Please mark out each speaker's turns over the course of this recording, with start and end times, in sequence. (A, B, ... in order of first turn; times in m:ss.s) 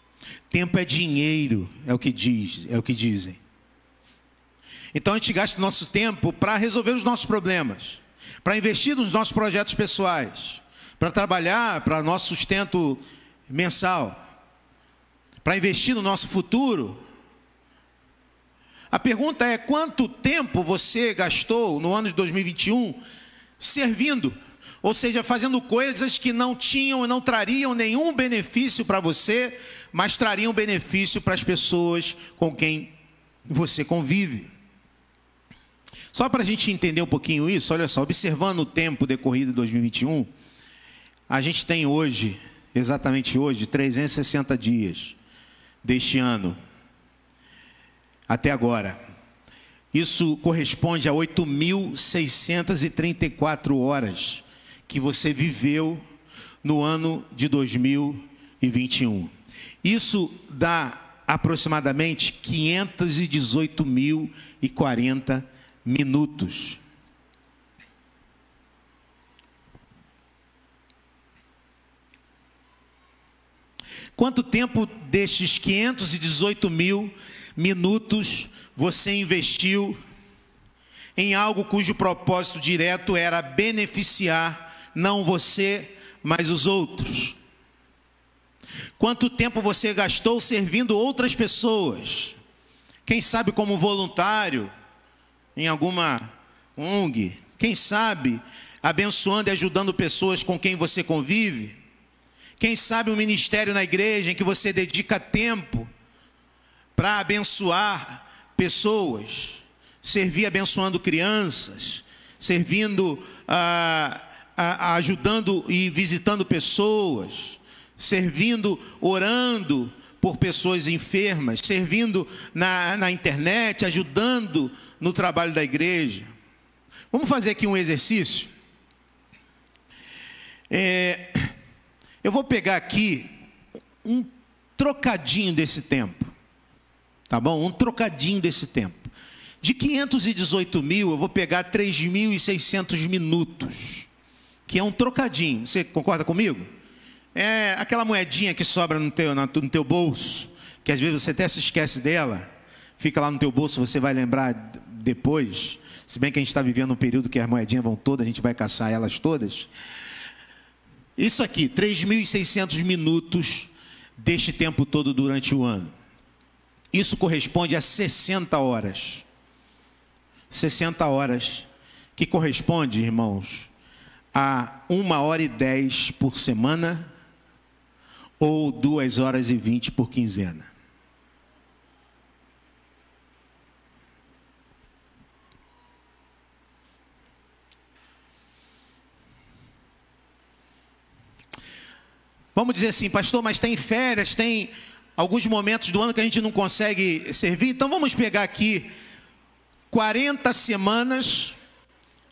0:00.5-0:03.4 A
0:04.9-0:14.2 A
0:15.4-0:17.0 A
0:18.9-0:23.0 A
0:23.6-0:32.9 A
0:33.5-0:34.5 A
0:36.1-0:40.3 A
0:41.3-0:45.2 A
0:45.8-0:46.6 A
0:48.3-0:49.0 A
0:49.9-0:56.0 A
0:56.6-1:06.8 A
1:14.2-1:20.0 A
1:21.2-1:27.4 A
1:29.0-1:32.4 A
1:33.0-1:34.7 A
1:35.6-1:41.8 A
1:42.6-1:45.9 A
1:47.0-2:06.3 A
2:07.1-2:08.5 A
2:10.7-2:11.5 A
2:12.2-2:13.3 A
2:14.0-2:16.3 A
2:17.3-2:24.1 A
2:24.7-2:26.7 A
2:27.3-2:39.7 A
2:41.2-2:45.9 A
2:46.9-2:49.2 A
2:50.5-2:53.7 A
2:54.3-2:57.1 A
2:58.4-3:00.7 A
3:12.5-3:18.9 A
3:19.9-3:21.6 A